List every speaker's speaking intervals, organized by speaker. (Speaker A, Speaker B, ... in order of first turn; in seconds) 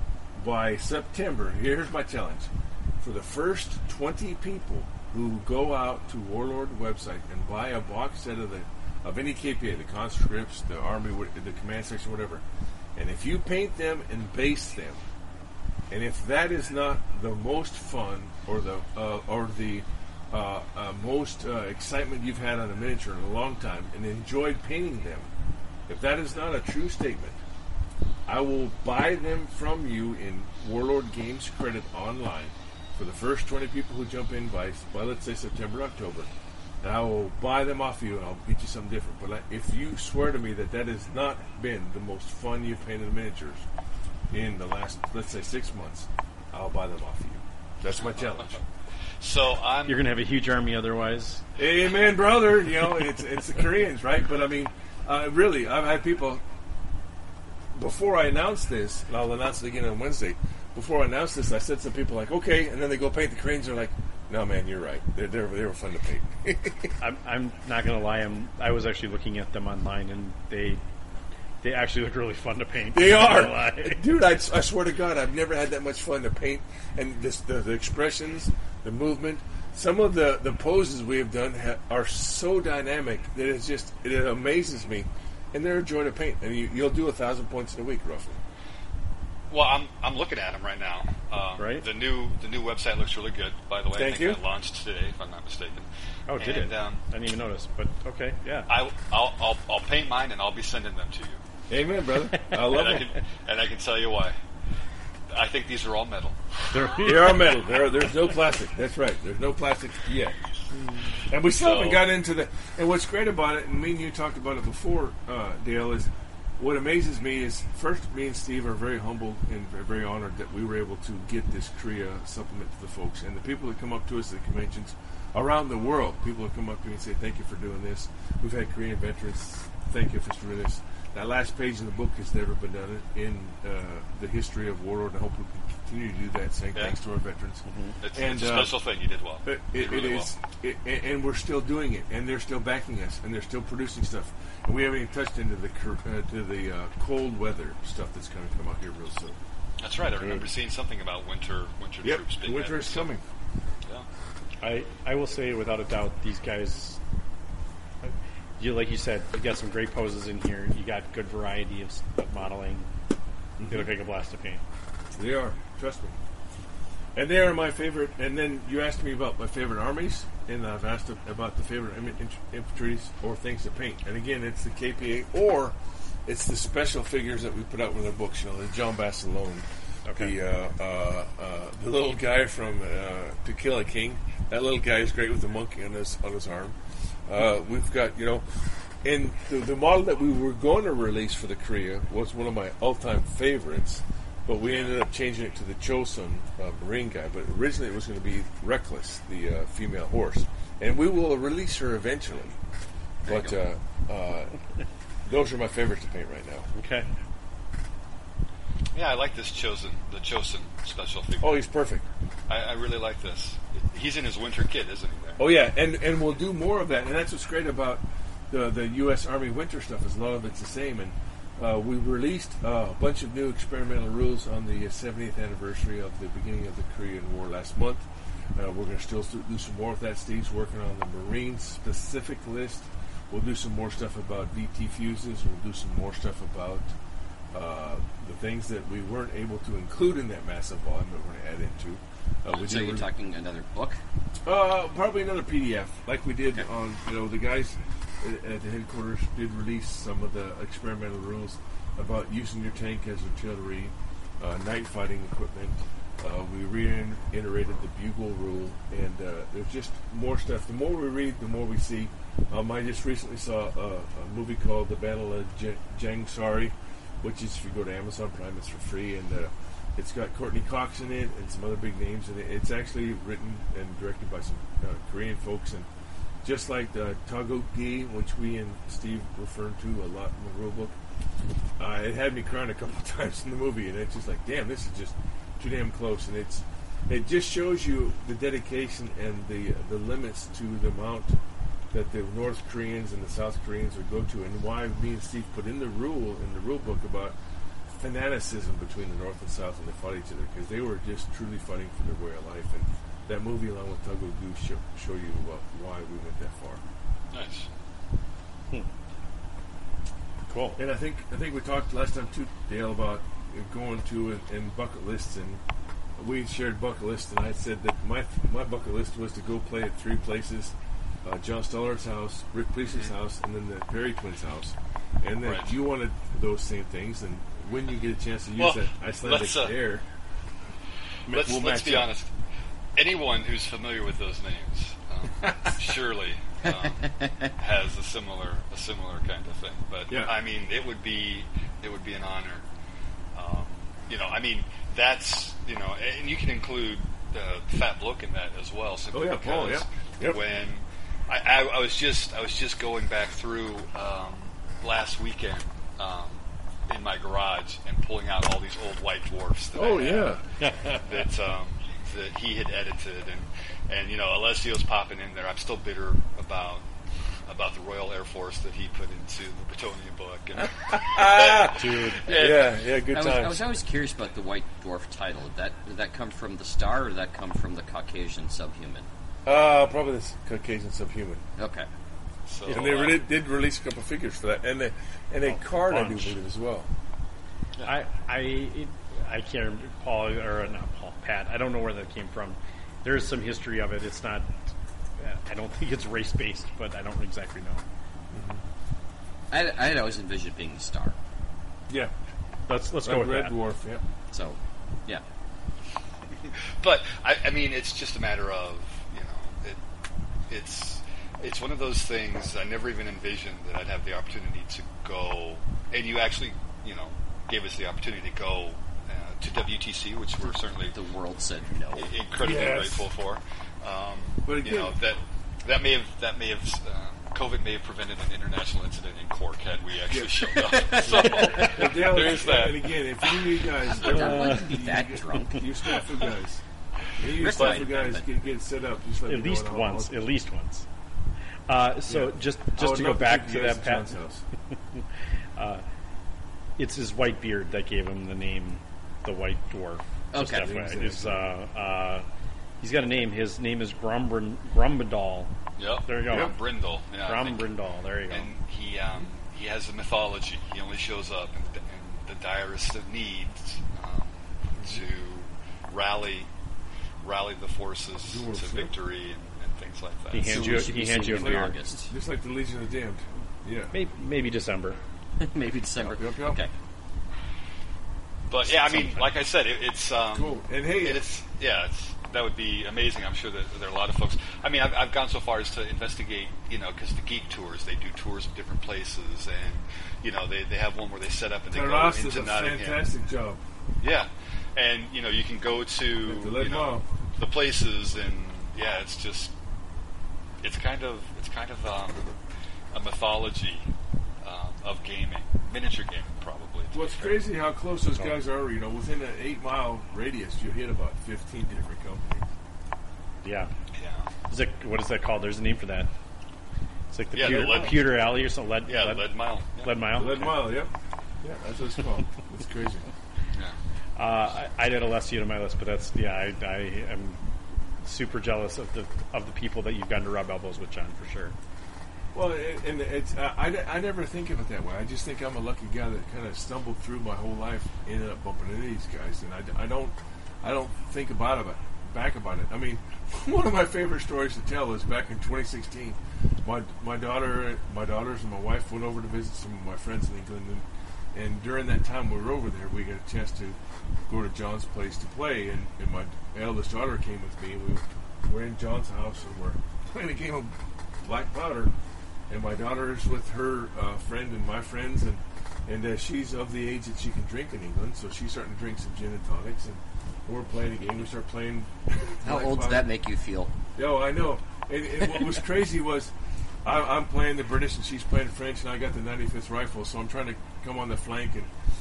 Speaker A: 0.3-12.4, 12.9-15.0, 15.9-25.3, 25.9-27.4, 28.3-36.3, 36.8-43.6, 44.3-48.6, 51.5-56.4, 57.7-66.9, 72.9-88.4, 93.9-94.4, 101.7-103.1, 107.0-110.4, 111.3-138.8, 139.4-149.4, 150.2-150.5, 152.0-153.2, 163.6-163.9, 165.1-166.2, 167.2-188.4, 189.0-202.6, 203.2-204.5, 205.2-206.7, 211.4-212.1, 215.4-236.9, 237.5-243.1, 244.4-275.9, 276.4-281.0, 281.8-291.4, 291.9-297.4, 297.9-306.8, 310.8-315.6, 316.2-330.0, 331.2-332.1, 335.4-335.7, 340.1-340.3, 349.1-350.4, 359.7-360.4, 370.6-373.6, 379.4-381.4, 382.6-386.9, 398.3-398.6, 403.0-404.0, 422.4-423.1, 424.4-424.9, 430.1-436.6, 437.2-440.1, 442.1-444.4, 450.6-451.5, 464.8-465.0, 468.2-468.9, 470.5-473.9, 476.0-476.6, 480.3-481.2, 491.7-493.6, 496.2-497.1, 506.9-512.5, 517.4-518.0, 520.1-520.9, 521.4-523.0, 532.3-561.9, 562.5-573.1, 574.0-576.3, 576.8-581.7
Speaker B: 48.0-48.5, 49.2-50.0, 89.5-97.0, 98.7-101.4, 102.6-104.3, 105.3-106.4, 111.5-112.1, 138.0-140.3, 149.8-153.1, 194.6-195.0, 208.9-211.6, 212.5-215.4, 307.3-307.7, 325.4-325.7, 328.6-329.8, 331.3-332.3, 332.9-342.6, 343.3-360.4, 361.0-366.9, 367.5-372.7, 382.4-383.2, 406.4-409.8, 410.5-420.9, 421.9-433.5, 437.6-437.9, 455.8-457.7, 458.3-466.5, 467.2-470.7, 478.5-493.0, 494.0-499.5, 500.6-502.3, 502.9-503.9, 504.4-507.4, 513.9-514.3, 517.3-520.0
Speaker C: 49.9-51.4, 67.0-70.8, 71.6-74.1, 91.6-91.8, 96.3-98.7, 106.7-107.5, 137.7-138.0, 154.6-157.0, 158.0-162.9, 163.7-164.6, 180.1-180.3, 206.8-207.1, 310.5-310.8, 360.6-361.1, 371.8-372.2, 385.4-386.4, 387.8-394.5, 395.2-397.8, 402.7-403.6, 434.1-434.7, 439.2-440.9, 441.7-444.1, 445.6-445.8, 446.8-452.2, 452.8-455.5, 456.1-456.6, 457.2-458.5, 470.3-471.8, 473.9-475.0, 513.4-513.7, 514.5-516.1, 517.1-520.7, 524.1-527.4, 528.0-531.5
Speaker D: 203.2-203.5, 242.5-244.0, 373.1-379.1, 381.6-381.9, 399.5-401.1, 404.3-405.2, 420.9-422.1, 430.6-431.7, 434.0-435.6, 437.4-438.2, 450.3-450.8, 470.4-472.1, 475.4-476.7, 572.4-573.7